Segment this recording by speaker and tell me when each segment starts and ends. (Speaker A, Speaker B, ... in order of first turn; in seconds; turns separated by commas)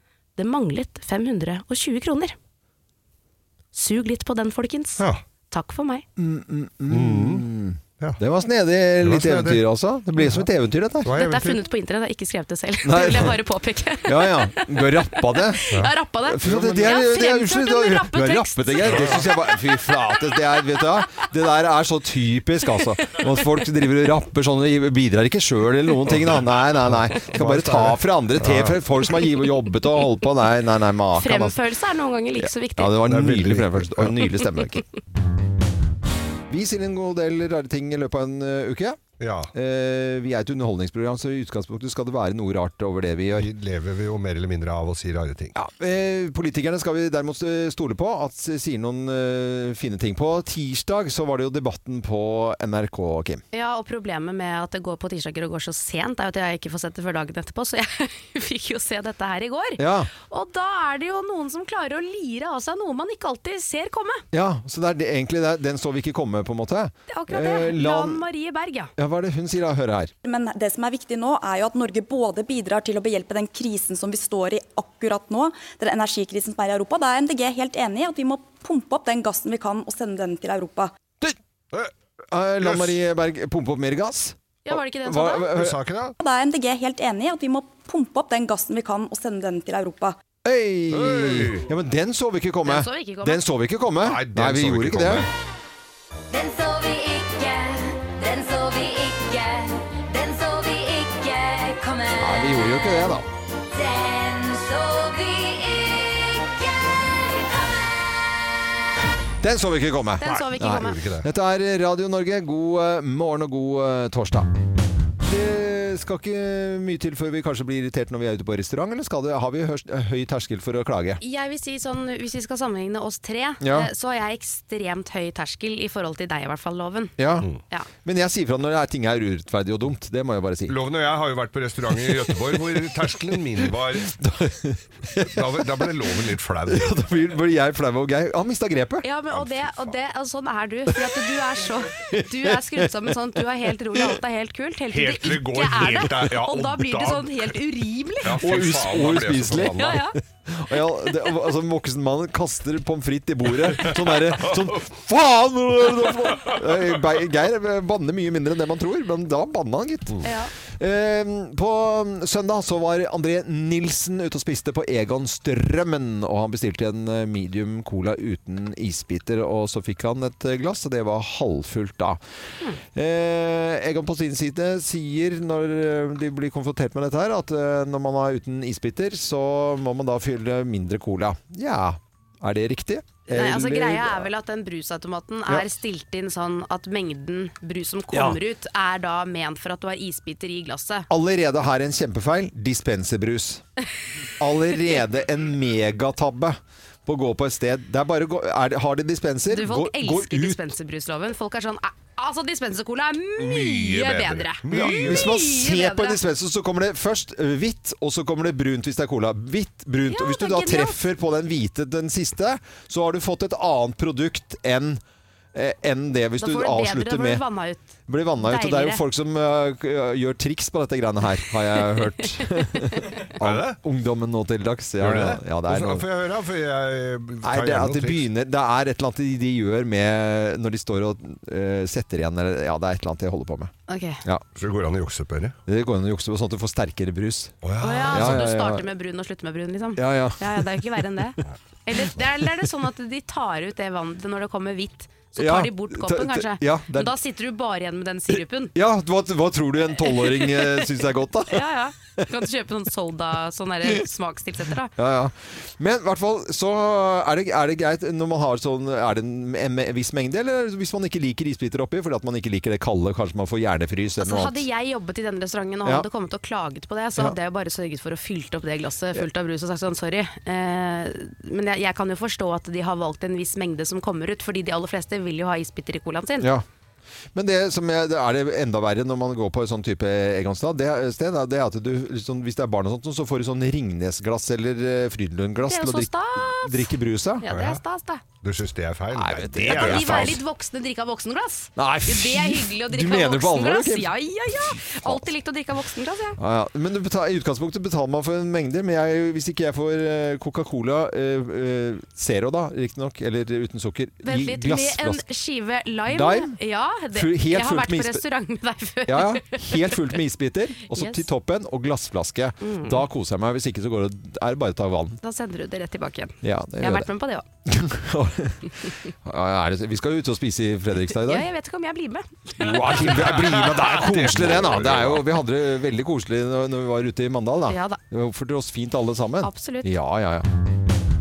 Speaker A: 0.4-2.4, Speaker A: 3.7-6.0, Speaker B: 6.2-11.2, Speaker C: 6.9-7.4, Speaker C: 9.0-9.6, Speaker C: 10.2-10.5, Speaker C: 11.0-11.6, Speaker A: 11.1-19.3, Speaker B: 12.8-13.4, Speaker B: 14.0-31.6, Speaker C: 16.4-16.9, Speaker C: 18.8-19.2, Speaker C: 26.1-28.8, Speaker A: 31.1-33.0, Speaker B: 32.4-34.8, Speaker C: 33.0-34.3, Speaker B: 36.5-39.0, Speaker C: 39.2-39.5, Speaker B: 39.5-43.5, Speaker C: 43.4-45.5, Speaker B: 45.5-53.4, Speaker A: 53.5-64.2, Speaker B: 59.8-60.1, Speaker B: 64.3-68.2, Speaker A: 67.1-68.9, Speaker B: 69.0-70.1, Speaker D: 70.2-80.9, Speaker C: 81.2-81.9, Speaker B: 82.3-85.8, Speaker C: 82.6-83.0, Speaker A: 84.7-85.5, Speaker C: 85.5-86.1, Speaker D: 86.2-90.2, Speaker B: 90.4-95.3, Speaker C: 90.9-91.6, Speaker A: 92.6-93.4, Speaker C: 94.0-95.3, Speaker E: 96.3-102.7, Speaker B: 102.2-103.3, Speaker E: 103.7-108.6, Speaker B: 109.4-114.5, Speaker A: 110.2-111.0, Speaker C: 110.2-111.2, Speaker B: 115.2-121.2, Speaker A: 121.2-127.2, Speaker B: 123.6-123.9, Speaker B: 127.2-127.5, Speaker B: 128.0-130.8, Speaker C: 130.7-134.1, Speaker B: 131.9-135.9, Speaker C: 135.2-136.9, Speaker B: 136.7-139.0, Speaker A: 139.0-148.4, Speaker C: 139.3-139.9, Speaker B: 140.9-141.2, Speaker B: 142.0-143.2, Speaker C: 144.9-147.5, Speaker C: 148.2-150.0, Speaker B: 148.4-172.2, Speaker A: 149.8-150.1, Speaker C: 153.7-154.2, Speaker A: 160.2-160.5, Speaker B: 172.9-184.3, Speaker A: 183.3-191.1, Speaker B: 188.1-188.4, Speaker B: 191.1-193.6, Speaker B: 194.4-200.6, Speaker A: 199.5-206.2, Speaker C: 203.4-205.3, Speaker B: 204.7-215.0, Speaker A: 210.1-211.0, Speaker B: 215.5-217.4, Speaker A: 216.4-219.0, Speaker B: 218.1-226.1, Speaker C: 223.4-223.8, Speaker C: 225.0-228.2, Speaker B: 227.4-233.7, Speaker A: 233.9-234.2, Speaker C: 234.6-235.6, Speaker B: 235.7-237.6, Speaker C: 237.6-238.4, Speaker A: 237.8-248.7, Speaker B: 238.1-238.8, Speaker B: 239.9-241.0, Speaker B: 245.4-247.1, Speaker B: 248.7-252.2, Speaker A: 250.1-250.8, Speaker A: 251.5-254.9, Speaker B: 254.9-264.6, Speaker A: 264.2-276.5, Speaker B: 277.3-287.4, Speaker A: 285.6-286.9, Speaker A: 287.4-288.2, Speaker C: 287.5-287.8, Speaker C: 288.4-290.4, Speaker B: 289.1-290.4, Speaker A: 289.7-296.4, Speaker B: 291.8-295.3, Speaker B: 296.4-305.2, Speaker A: 304.2-310.1, Speaker B: 306.1-306.6, Speaker B: 307.1-308.2, Speaker B: 309.1-315.2, Speaker A: 310.9-311.3, Speaker A: 312.6-313.0, Speaker A: 315.2-317.4, Speaker B: 316.4-317.1, Speaker B: 317.6-321.5, Speaker A: 321.1-322.8, Speaker B: 322.6-330.5, Speaker C: 322.6-325.2, Speaker A: 327.7-328.0, Speaker A: 329.4-329.9